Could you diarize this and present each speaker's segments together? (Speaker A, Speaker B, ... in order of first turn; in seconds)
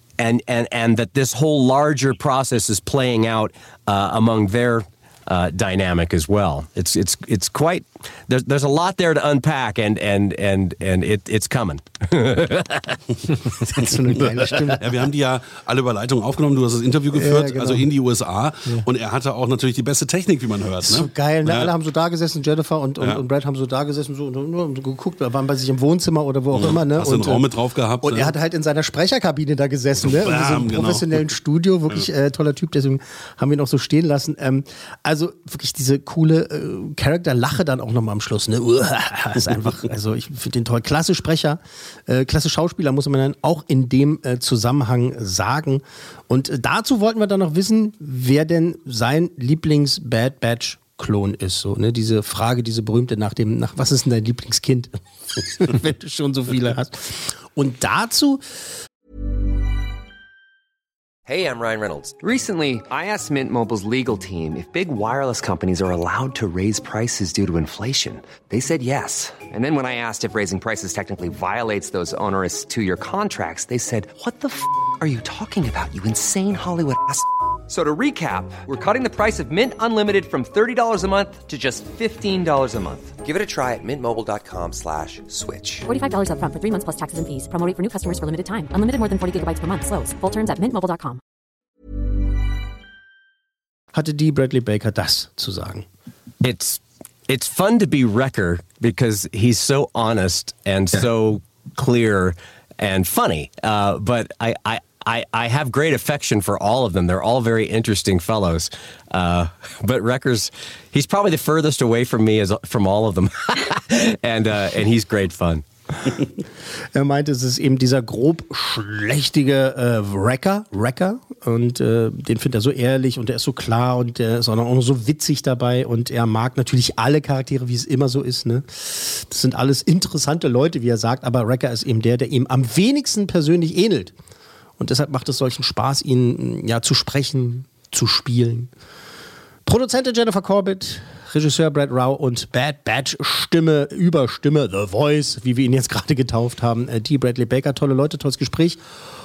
Speaker A: 0.2-13.0, 96.4-115.6
Speaker B: 13.7-15.1, 17.1-17.9, 20.8-27.4, 28.0-58.4, 93.9-95.8, 116.9-134.1, 134.8-138.7, 139.7-148.8
Speaker C: 14.4-21.7, 26.5-28.3, 30.0-31.1
Speaker D: 61.2-85.8
Speaker E: 85.8-91.2